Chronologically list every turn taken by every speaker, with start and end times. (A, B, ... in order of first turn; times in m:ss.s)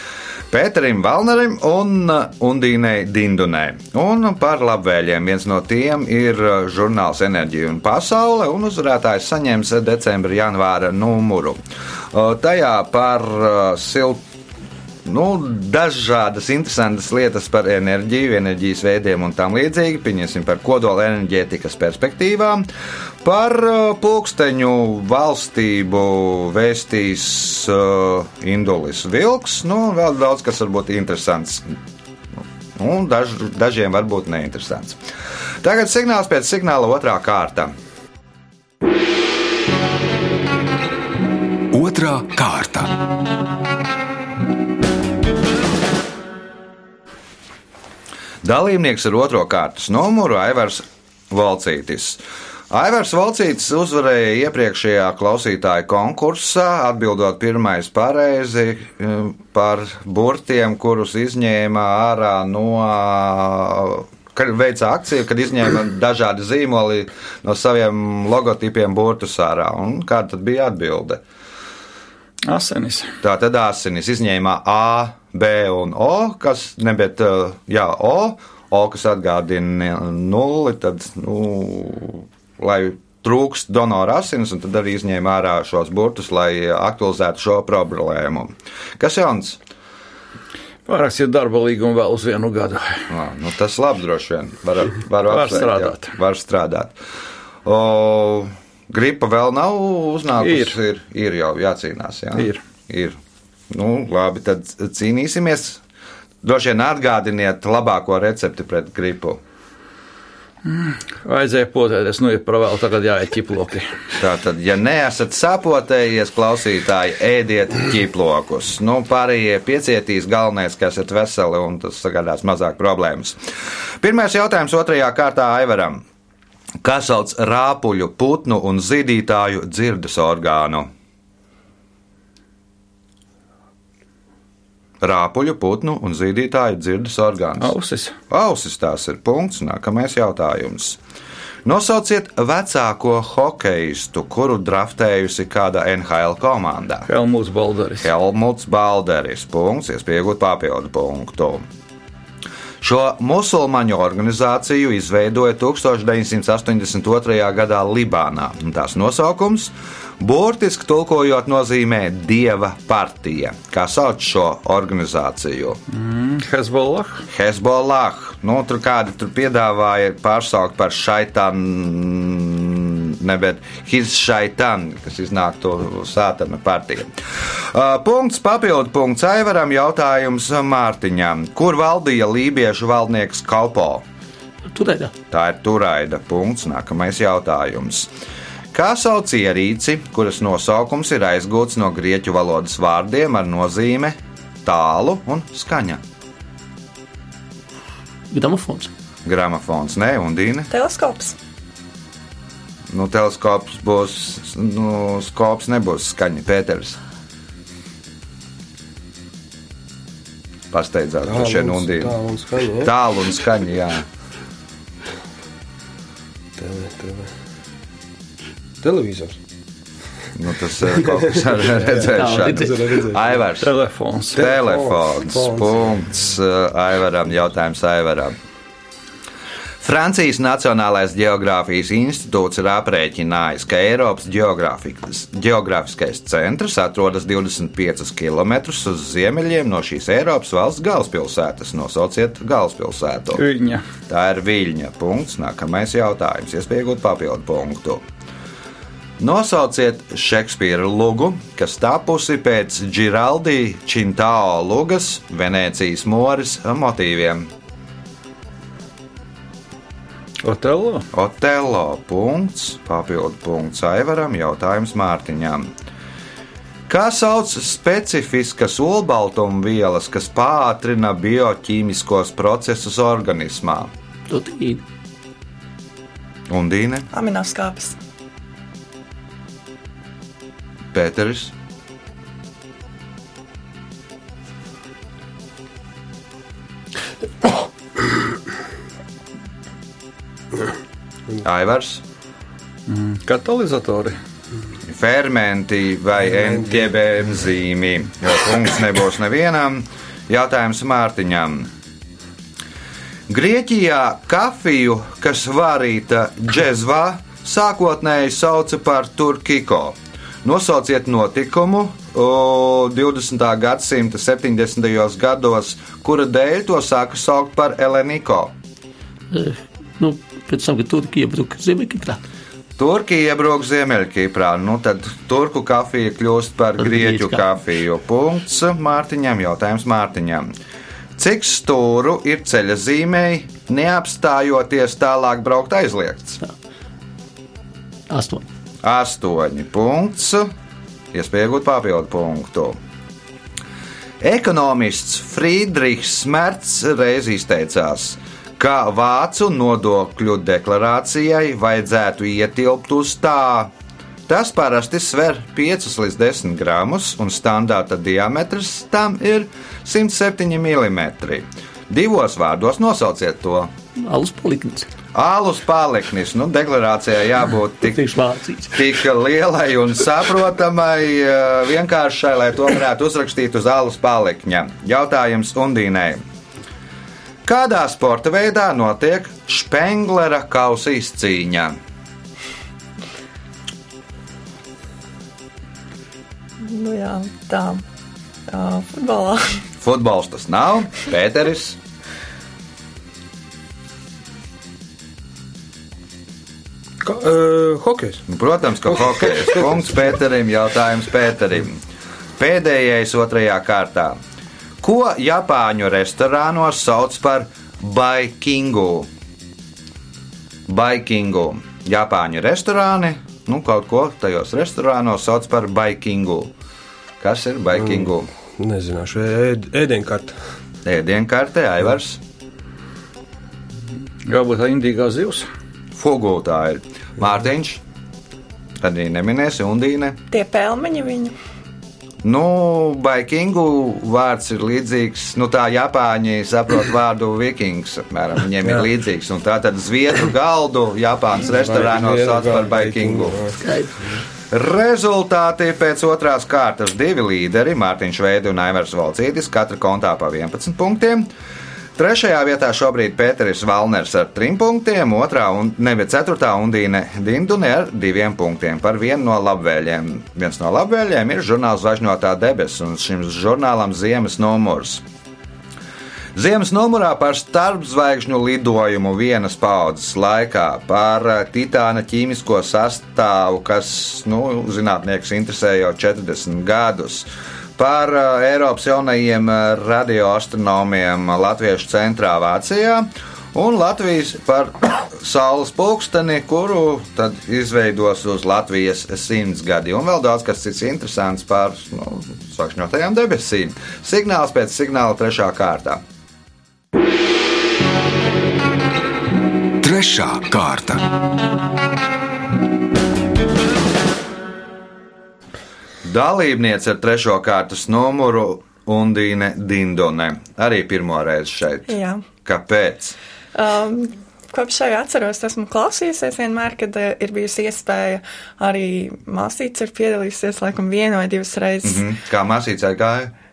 0:00.5-0:11.6 A
0:12.1-0:14.2 A
0:15.0-0:22.7 A
0:23.2-0:31.7 A
0:32.8-0:35.0 A
0:35.6-0:37.7 A
0:41.7-0:43.0 B
0:48.4-1:11.2 A
1:12.4-1:13.2 C
1:13.2-1:29.6 A
1:30.9-1:33.1 C
1:33.1-1:37.0 A
1:35.3-1:36.1 C
1:37.6-1:43.2 A
1:40.4-1:40.7 C
1:43.7-1:45.8 A
1:46.4-1:49.4 A
1:50.6-1:54.0 C
1:54.2-2:03.4 A
2:04.0-2:06.0 A
2:06.8-2:10.9 A
2:15.0-2:17.7 A
2:17.6-2:18.1 C
2:18.3-2:21.0 A
2:21.6-2:27.1 A
2:27.1-2:28.1 C
2:28.0-2:31.6 A
2:32.8-2:45.8 A
2:45.9-2:47.2 C
2:47.3-3:04.0 A
3:04.7-3:05.1 D
3:05.3-3:08.1 A
3:08.7-3:16.0 A
3:18.3-3:18.9 D
3:19.2-3:20.7 A
3:20.7-3:21.4 E
3:22.9-3:27.0 A
3:30.7-3:32.2 A
3:31.2-3:32.9 F
3:32.8-3:34.1 A
3:36.6-3:37.3 F
3:38.8-3:39.4 F
3:40.4-3:43.7 A
3:40.9-3:43.4 F
3:42.1-3:42.8 D
3:43.6-3:44.4 C
3:44.4-3:46.0 F
3:44.4-3:48.4 A
3:49.8-4:03.4 A
4:03.3-4:03.8 C
4:04.1-4:08.0 A
4:09.2-4:17.5 A
4:20.4-4:21.1 C
4:21.1-4:25.7 A
4:26.9-4:33.9 A
4:34.3-4:34.8 D
4:36.5-4:37.1 A
4:37.1-4:38.0 E
4:40.9-4:41.5 A
4:51.4-4:52.0 A
4:52.9-4:54.2 C
4:54.9-5:01.7 A
5:03.3-5:18.5 A
5:19.3-5:22.2 D
5:22.8-5:30.5 A
5:26.9-5:27.4 D
5:31.2-5:36.4 A
5:38.1-5:38.4 D
5:38.8-5:40.5 A
5:41.1-5:42.8 A
5:44.2-5:53.7 A
5:54.3-6:03.7 A
6:04.0-6:04.9 D
6:05.1-6:08.0 A
6:07.9-6:08.9 D
6:08.7-6:16.2 A
6:17.4-6:21.8 A
6:26.6-6:27.8 E
6:28.5-6:29.6 E
6:29.8-6:31.8 A
6:37.0-6:38.2 F
6:38.3-6:41.8 A
6:42.4-6:44.2 A
6:44.8-6:49.1 A
6:50.7-6:56.5 A
6:57.2-6:58.3 A
6:57.8-7:00.4 F
7:00.8-7:02.2 A
7:04.3-7:05.5 C
7:05.9-7:07.8 A
7:08.8-7:10.2 A
7:10.3-7:11.3 E
7:12.2-7:23.6 A
7:21.6-7:24.2 F
7:23.6-7:23.9 D
7:24.5-7:31.3 A
7:32.0-7:45.0 A
7:46.4-8:16.0 A
8:19.8-8:21.1 B
8:26.0-8:33.2 A
8:31.9-8:32.2 E
8:33.6-8:42.0 E
8:41.8-8:43.3 A